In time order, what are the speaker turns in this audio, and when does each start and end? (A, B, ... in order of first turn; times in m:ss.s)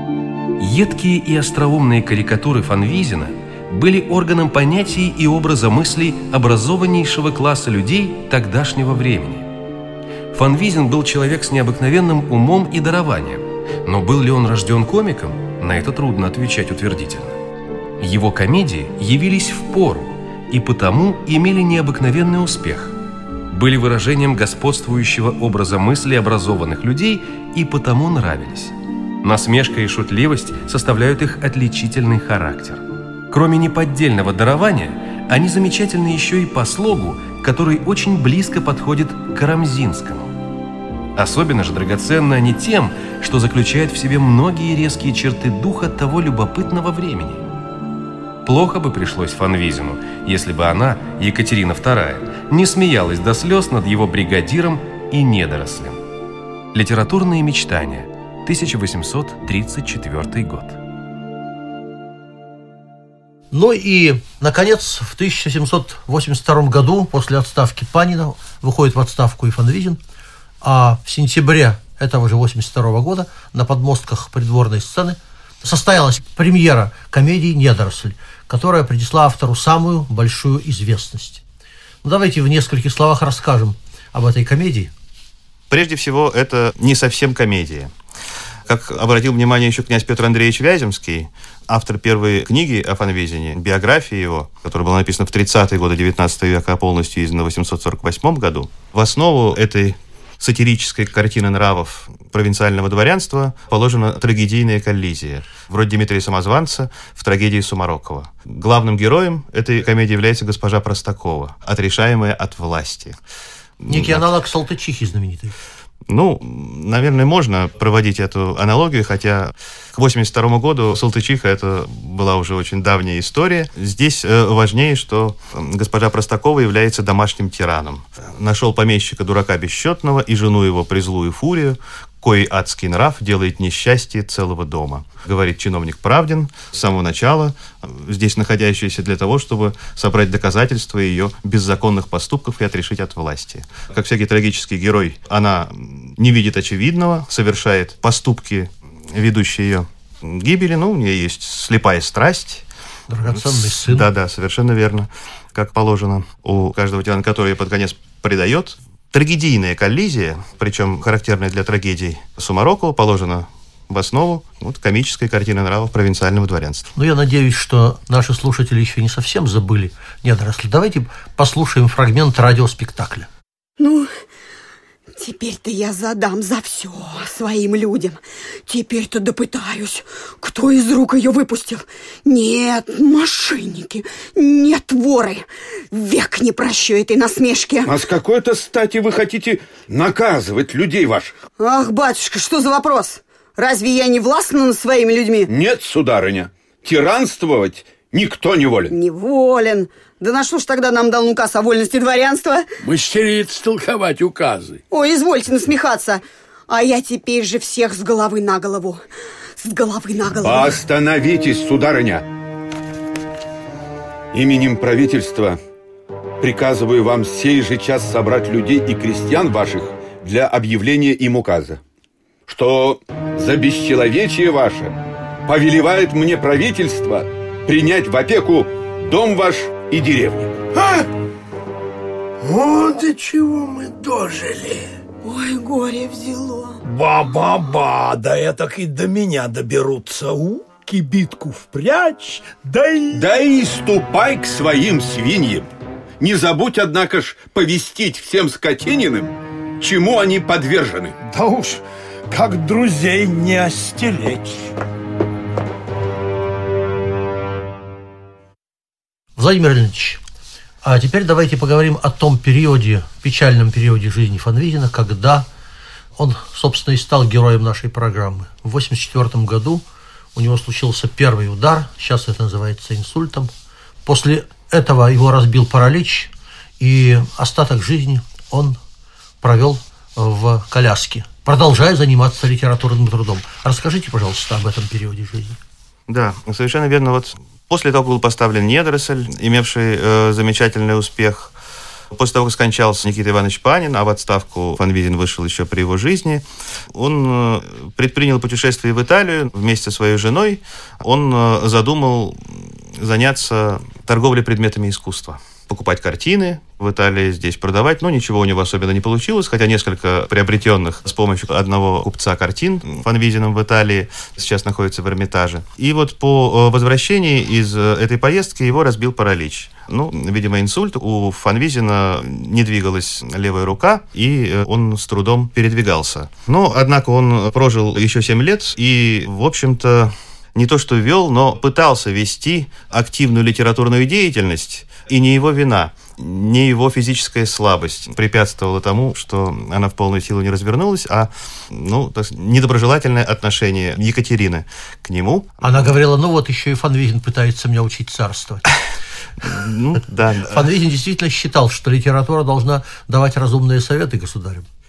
0:00.6-0:09.5 A
0:10.3-0:17.4 A
0:18.0-0:22.9 A
0:23.5-0:40.4 A
0:41.2-0:47.4 A
0:48.4-0:56.0 A
0:56.7-1:00.8 A
1:03.5-1:10.0 B
1:10.6-1:21.4 B
1:22.0-1:24.9 B
1:25.7-1:27.9 C
1:28.7-1:53.2 C
1:53.8-1:54.3 C
1:53.9-1:55.6 B
1:56.1-2:32.7 C
2:33.1-2:34.1 B
2:33.3-2:46.9 C
2:47.0-2:53.3 B
2:53.8-2:54.1 D
2:55.2-3:08.0 D
3:07.9-3:11.3 E
3:11.6-3:15.5 D
3:15.5-3:18.9 E
3:18.9-3:22.7 D
3:22.9-3:24.8 E
3:22.9-3:24.4 F
3:24.9-3:29.0 D
3:29.6-3:30.8 D
3:30.4-3:32.2 E
3:34.3-3:35.6 E
3:36.4-3:41.8 E
3:42.5-3:45.0 E
3:45.5-3:50.6 E
3:50.8-3:51.1 F
3:52.4-3:54.9 F
3:55.2-3:56.8 D
3:56.8-4:03.3 F
4:03.1-4:05.7 E
4:06.2-4:11.2 E
4:11.2-4:14.7 F
4:19.4-4:20.2 B
4:20.8-4:25.5 B
4:26.2-4:29.8 B
4:30.4-4:33.5 B
4:34.1-4:38.8 B
4:39.4-4:45.6 B
4:46.1-4:51.5 C
4:52.1-5:45.9 C
5:45.6-5:48.7 B
5:49.4-5:50.7 C
5:50.5-5:54.7 B